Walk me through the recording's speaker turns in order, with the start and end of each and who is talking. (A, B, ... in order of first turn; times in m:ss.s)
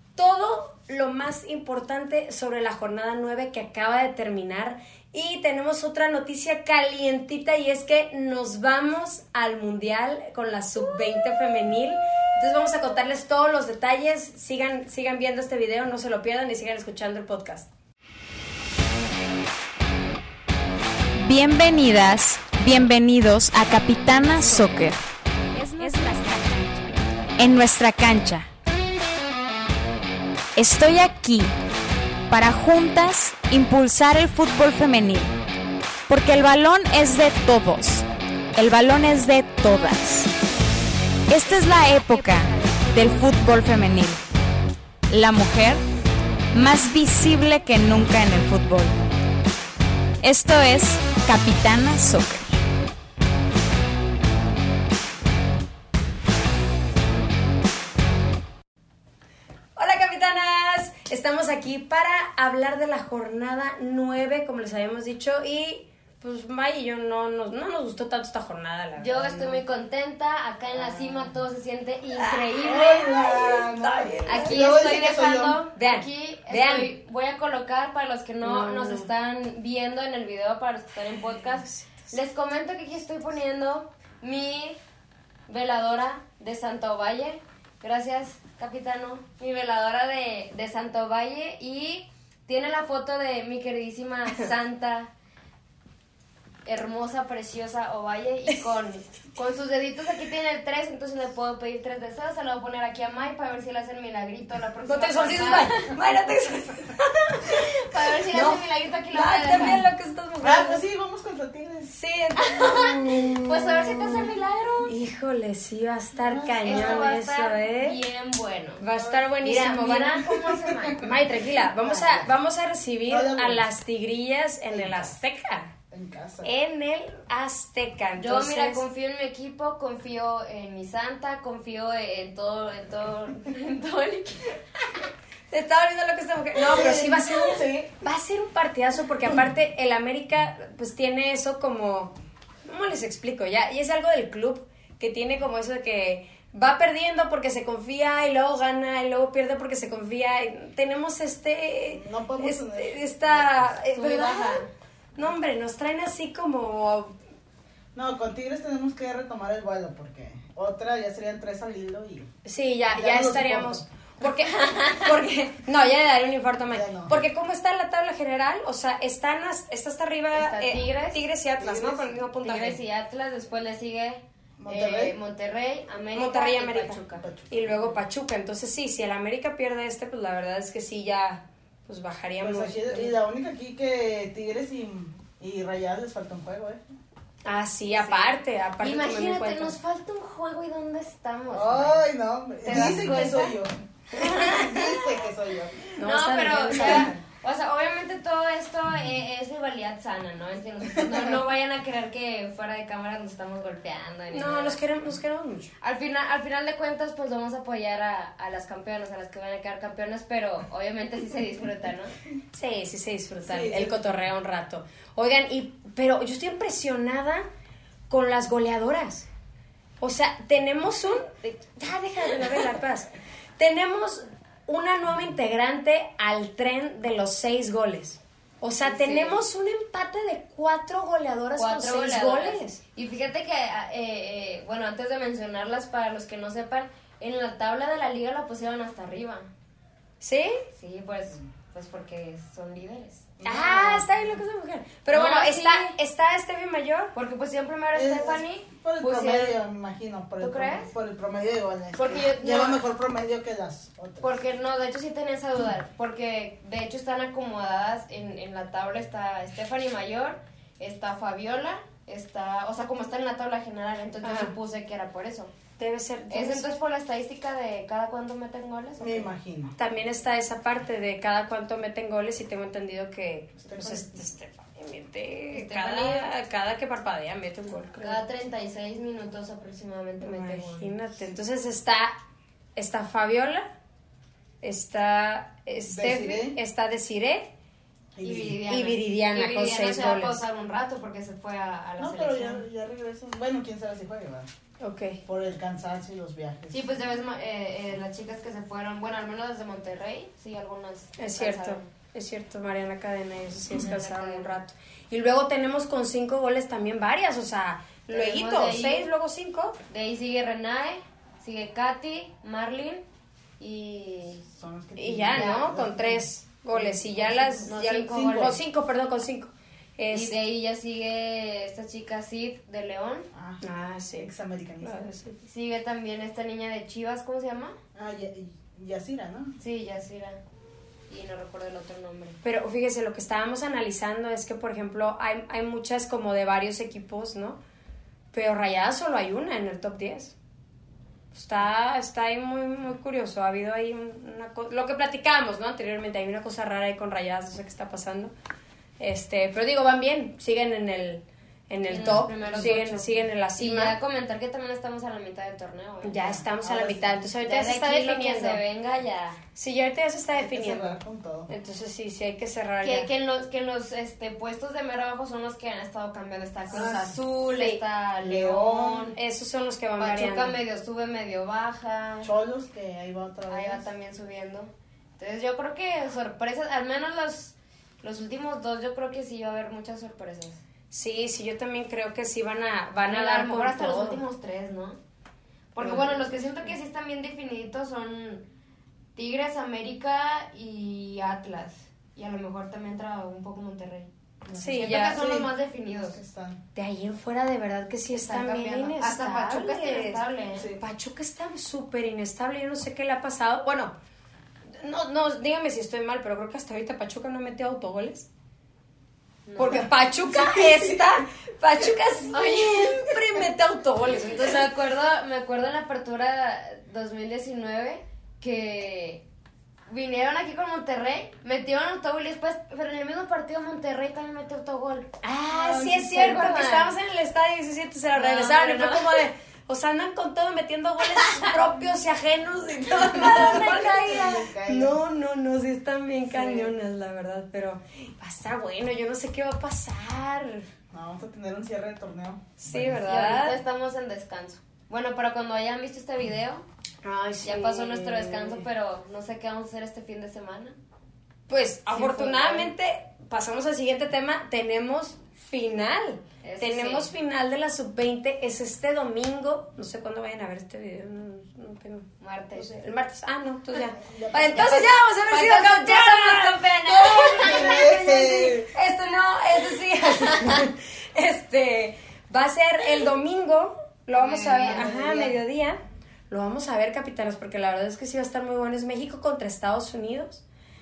0:00.2-0:17.7 A
0:21.2-0:25.0 B
0:24.2-0:24.9 A
0:25.6-0:26.5 A
0:25.8-0:26.8 B
0:27.4-0:28.5 B
0:30.6-0:31.5 B
0:32.3-0:35.3 B
0:36.1-0:40.3 B
0:41.3-0:44.2 B
0:41.4-0:43.6 C
0:45.1-0:45.8 B
0:46.5-0:49.0 B
0:50.2-0:52.5 B
0:59.8-1:09.6 A
1:09.0-1:13.0 C
1:10.8-1:11.2 D
1:12.2-1:14.7 A
1:12.6-1:15.6 D
1:14.2-1:24.8 C
1:15.7-1:16.9 A
1:18.4-1:19.1 A
1:21.6-1:22.1 A
1:25.5-1:35.1 C
1:36.6-1:45.9 C
1:44.8-1:47.7 A
1:47.8-1:49.8 C
1:48.3-1:48.6 A
1:49.1-1:50.8 A
1:50.4-1:51.9 D
1:51.9-1:54.3 A
1:52.4-1:54.9 C
1:54.8-1:58.0 A
1:56.2-1:57.2 D
1:56.6-1:58.8 C
1:58.8-2:00.4 A
1:58.9-1:59.3 D
1:59.4-2:01.2 C
2:00.5-2:00.9 D
2:01.0-2:05.7 A
2:01.7-2:02.3 D
2:03.1-2:03.7 D
2:04.7-2:05.2 D
2:05.9-2:06.5 D
2:06.4-2:08.8 A
2:08.2-2:14.6 C
2:15.5-2:34.6 A
2:16.6-2:17.9 D
2:31.9-2:33.8 D
2:33.9-2:34.7 C
2:35.2-2:37.1 A
2:37.9-2:42.3 D
2:42.4-2:52.8 A
2:42.9-2:43.8 D
2:44.4-2:45.1 C
2:46.7-2:47.2 D
2:50.3-2:51.2 C
2:51.6-2:52.2 D
2:52.4-2:57.2 C
2:54.6-2:55.2 D
2:56.1-3:03.2 A
2:57.2-2:57.7 D
3:02.4-3:06.8 D
3:07.4-3:09.8 A
3:07.9-3:12.0 C
3:11.5-3:15.9 D
3:12.6-3:13.5 C
3:14.2-3:15.0 C
3:14.2-3:14.5 A
3:16.0-3:17.2 A
3:16.0-3:24.8 C
3:16.7-3:17.1 D
3:24.3-3:25.7 A
3:25.8-3:32.1 C
3:32.5-3:37.4 A
3:33.4-3:34.2 D
3:38.1-3:39.3 A
3:40.0-3:52.8 A
3:48.8-3:49.4 C
3:51.6-3:59.5 C
4:00.2-4:00.6 A
4:00.7-4:03.3 C
4:03.4-4:04.1 D
4:03.4-4:07.1 A
4:05.1-4:06.0 C
4:07.1-4:09.6 C
4:07.9-4:14.3 D
4:10.4-4:10.9 C
4:11.9-4:12.8 C
4:14.2-4:25.5 C
4:24.2-4:24.5 A
4:25.8-4:26.8 A
4:26.3-4:29.3 C
4:29.0-4:29.8 D
4:29.8-4:38.2 A
4:33.6-4:34.2 D
4:35.5-4:36.3 C
4:38.0-4:40.9 C
4:40.2-4:42.1 A
4:42.8-4:43.7 A
4:44.6-4:47.5 A
4:45.9-4:46.6 D
4:48.1-4:48.6 D
4:48.2-4:52.6 C
4:48.7-4:50.4 A
4:52.0-4:54.5 D
4:54.8-4:55.2 A
4:55.2-4:56.9 D
4:56.7-5:01.9 C
5:01.2-5:09.8 A
5:03.7-5:04.5 C
5:08.1-5:09.1 C
5:09.9-5:13.0 C
5:13.6-5:14.4 C
5:14.5-5:18.6 D
5:15.0-5:20.3 A
5:15.3-5:15.7 C
5:17.6-5:18.6 C
5:20.1-5:23.3 C
5:23.3-5:23.6 D
5:23.6-5:25.4 A
5:24.2-5:25.1 D
5:25.4-5:27.8 C
5:27.9-5:29.6 D
5:29.6-5:30.4 C
5:31.1-5:32.4 C
5:32.4-5:37.6 A
5:38.3-5:40.3 A
5:41.3-5:48.3 A
5:49.0-5:54.0 A
5:51.9-5:56.4 C
5:52.0-5:52.8 D
5:56.0-5:58.6 A
5:56.2-5:57.2 D
5:57.4-5:59.4 C
5:59.5-6:03.1 A
6:00.3-6:01.5 D
6:02.8-6:09.2 C
6:06.7-6:07.2 D
6:07.5-6:07.8 A
6:08.2-6:09.1 D
6:09.1-6:10.6 A
6:10.0-6:12.3 C
6:12.2-6:13.8 D
6:13.5-6:20.6 C
6:20.9-6:24.2 A
6:23.0-6:25.0 C
6:25.7-6:28.4 C
6:25.8-6:26.1 A
6:29.1-6:34.1 C
6:34.4-6:36.6 D
6:34.5-6:35.2 A
6:34.7-6:36.2 C
6:36.7-6:40.2 A
6:38.1-6:40.7 C
6:40.5-6:40.8 D
6:40.8-6:43.9 A
6:44.7-6:48.3 A
6:49.4-6:50.7 C
6:49.6-6:54.7 A
6:52.3-6:53.3 C
6:54.1-6:59.2 C
6:59.9-7:06.9 C
7:05.2-7:20.7 A
7:08.1-7:09.2 C
7:11.2-7:11.5 C
7:13.1-7:13.8 C
7:13.2-7:15.0 D
7:16.3-7:16.7 C
7:20.9-7:23.0 D
7:22.6-7:23.6 A
7:23.0-7:26.6 C
7:27.0-7:28.6 A
7:27.4-7:30.7 C
7:31.5-8:00.4 A
7:31.9-7:32.7 C
7:36.4-7:37.1 C
7:42.2-7:42.7 C
7:43.9-7:44.7 D
7:44.5-7:47.8 C
7:47.2-7:48.7 D
7:54.1-7:54.9 C
7:54.6-7:55.4 D